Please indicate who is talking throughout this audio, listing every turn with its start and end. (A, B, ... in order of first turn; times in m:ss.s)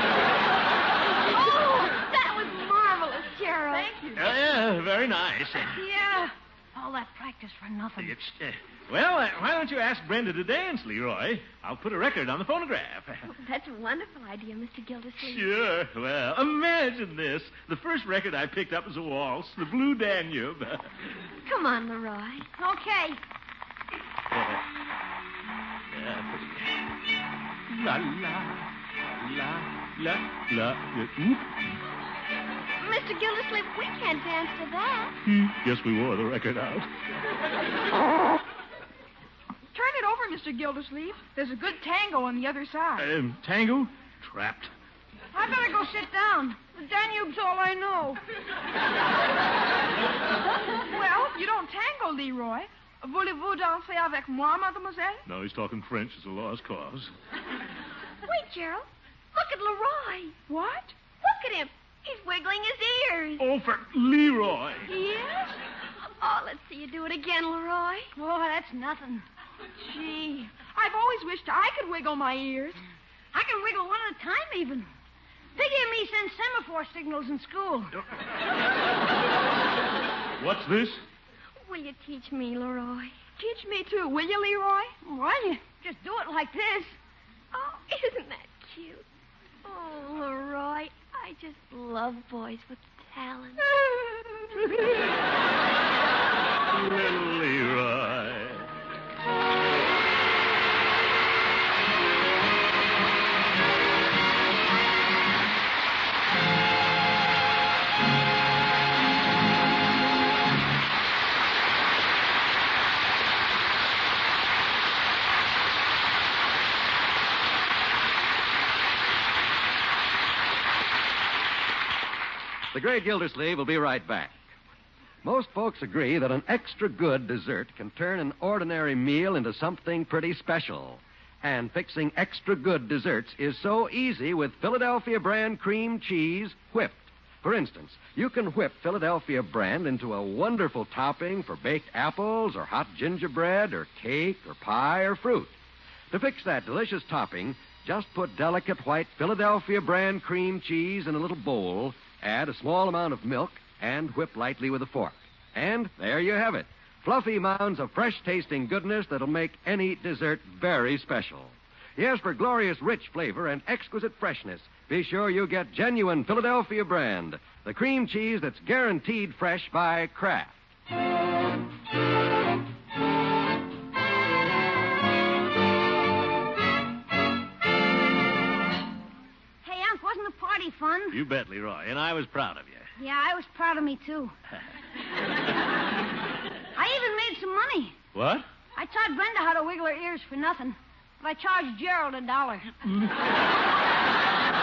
0:01.3-0:03.9 A
0:03.7-0:04.3 B
0:04.2-0:05.8 C
0:05.7-0:08.1 D
0:08.0-0:13.3 C
0:13.3-0:15.5 A
0:15.2-0:20.9 C
0:21.4-0:22.5 A
0:22.6-0:23.2 D
0:24.3-0:24.6 C
0:25.9-0:26.7 C
0:27.7-0:31.5 C
0:32.8-0:35.2 A
0:35.2-0:36.9 C
0:39.7-0:43.1 B
0:43.0-0:44.7 C
0:45.3-0:48.2 D
0:50.8-0:55.2 B
0:55.2-0:57.1 C
0:58.2-1:00.4 A
1:00.5-1:00.9 B
1:01.2-1:03.4 A
1:03.4-1:04.9 C
1:04.9-1:05.6 B
1:06.0-1:08.1 A
1:08.1-1:09.2 D
1:09.7-1:12.8 B
1:13.3-1:14.9 D
1:15.6-1:17.9 D
1:20.4-1:21.0 C
1:21.6-1:23.2 A
1:23.4-1:24.9 B
1:25.0-1:27.0 D
1:27.5-1:29.0 A
1:29.6-1:33.7 A
1:33.8-1:34.3 B
1:36.7-1:38.7 C
2:02.7-2:04.4 E
2:05.2-2:25.5 E
2:26.1-2:50.6 E
2:59.6-3:01.2 D
3:01.1-3:02.9 C
3:03.0-3:04.3 D
3:06.7-3:08.0 D
3:08.1-3:08.4 C
3:08.8-3:12.7 D
3:12.8-3:13.1 C